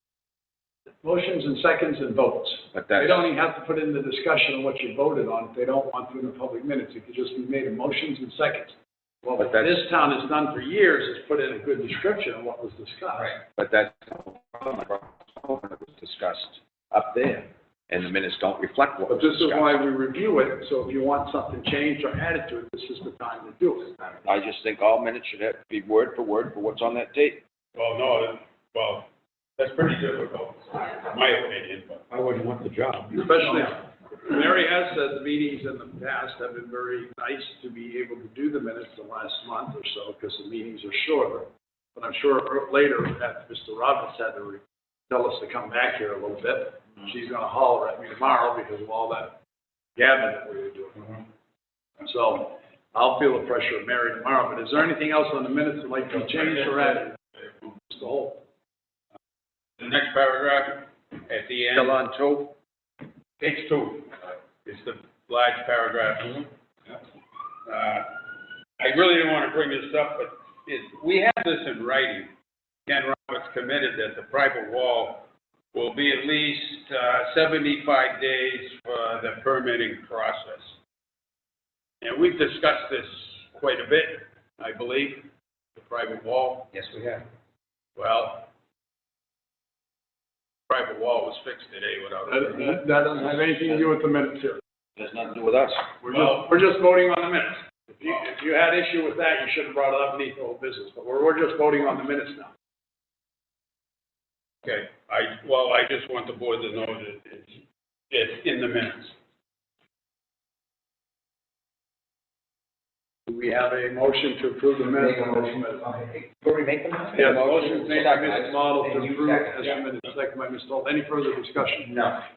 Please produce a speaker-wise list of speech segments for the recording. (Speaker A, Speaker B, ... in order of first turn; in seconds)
Speaker A: 1.0-13.4, 19.1-23.9, 33.1-49.4, 50.0-51.2, 52.0-57.2, 57.9-58.4, 92.3-94.6, 96.0-102.5, 113.3-115.8, 117.1-122.0
Speaker B: 2.7-3.3, 9.4-9.8, 13.6-19.8, 24.2-27.4, 61.7-62.5, 95.0-95.9, 117.3-117.7
Speaker C: 27.8-33.6, 56.1-57.7, 59.8-62.0, 63.4-67.0, 67.7-72.3, 72.9-80.8, 82.0-86.7, 88.0-88.5, 90.7-92.8, 96.1-96.5, 104.6-109.2
Speaker D: 86.7-87.2, 114.8-119.8, 121.8-122.2